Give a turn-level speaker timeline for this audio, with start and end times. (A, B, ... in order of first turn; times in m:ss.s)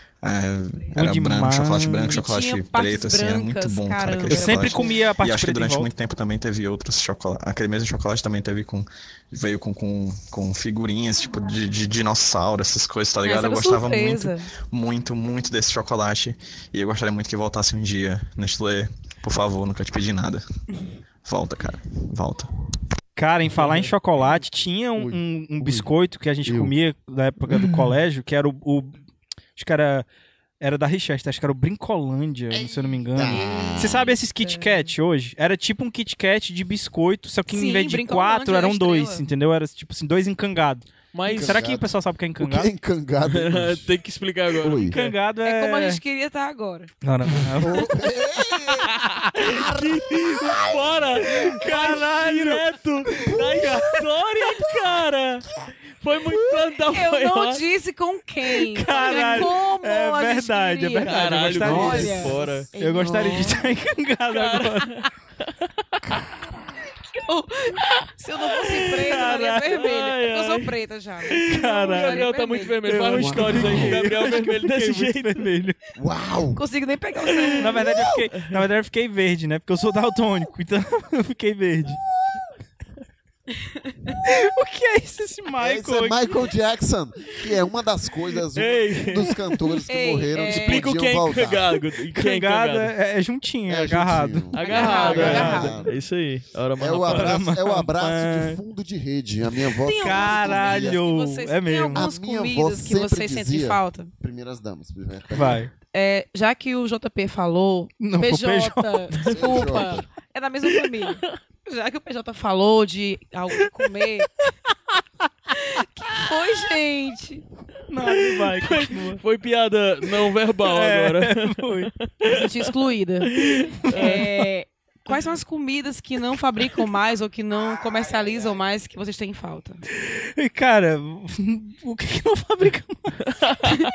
0:00.2-0:20.4 A
0:00.9-0:02.2 B
0:02.1-0:04.9 C
0:04.3-0:05.9 B
0:13.2-0:14.4 C
0:21.2-0:22.5 A
0:23.2-0:29.0 B
0:23.6-0:23.9 D
0:25.0-0:25.9 E
0:26.4-0:26.7 E
0:29.6-0:30.0 B
0:30.6-0:42.7 B
0:32.5-0:34.0 E
0:33.7-0:34.9 C
0:37.5-0:39.2 C
0:41.1-0:41.6 D
0:41.3-0:43.9 E
0:43.3-0:45.1 D
0:44.6-0:44.9 E
0:44.9-0:46.0 B
0:45.4-0:46.9 C
0:47.0-0:47.9 B
0:47.6-0:51.5 E
0:49.4-0:55.4 D
0:51.5-0:52.6 B
0:53.2-0:53.7 E
0:56.0-0:57.6 D
0:56.9-1:03.5 C
0:58.7-1:05.0 B
0:59.1-0:59.4 D
1:01.0-1:02.7 D
1:01.7-1:02.1 E
1:03.0-1:03.6 E
1:04.3-1:05.1 D
1:07.1-1:12.8 C
1:08.7-1:10.7 D
1:09.0-1:09.7 B
1:11.3-1:15.4 D
1:11.4-1:12.3 B
1:12.8-1:15.8 B
1:13.2-1:14.0 E
1:16.0-1:16.6 E
1:16.5-1:17.9 C
1:17.6-1:22.0 B
1:24.2-1:26.2 B
1:25.6-1:31.6 E
1:28.5-1:29.2 D
1:29.9-1:30.8 C
1:30.5-1:32.9 D
1:32.1-1:35.7 B
1:33.7-1:35.9 E
1:34.5-1:37.4 D
1:34.6-1:35.7 C
1:36.8-1:41.0 E
1:37.0-1:38.6 B
1:39.8-1:44.1 C
1:39.9-1:42.0 B
1:41.9-1:45.6 E
1:45.3-1:45.7 B
1:45.9-1:54.3 C
1:48.0-1:49.0 B
1:49.3-1:50.0 E
1:55.6-1:57.4 C
1:57.9-1:59.2 B
1:58.6-2:01.6 D
2:00.6-2:01.9 B
2:02.3-2:03.3 C
2:03.4-2:04.2 D
2:03.9-2:04.3 B
2:03.9-2:09.8 C
2:09.9-2:13.3 B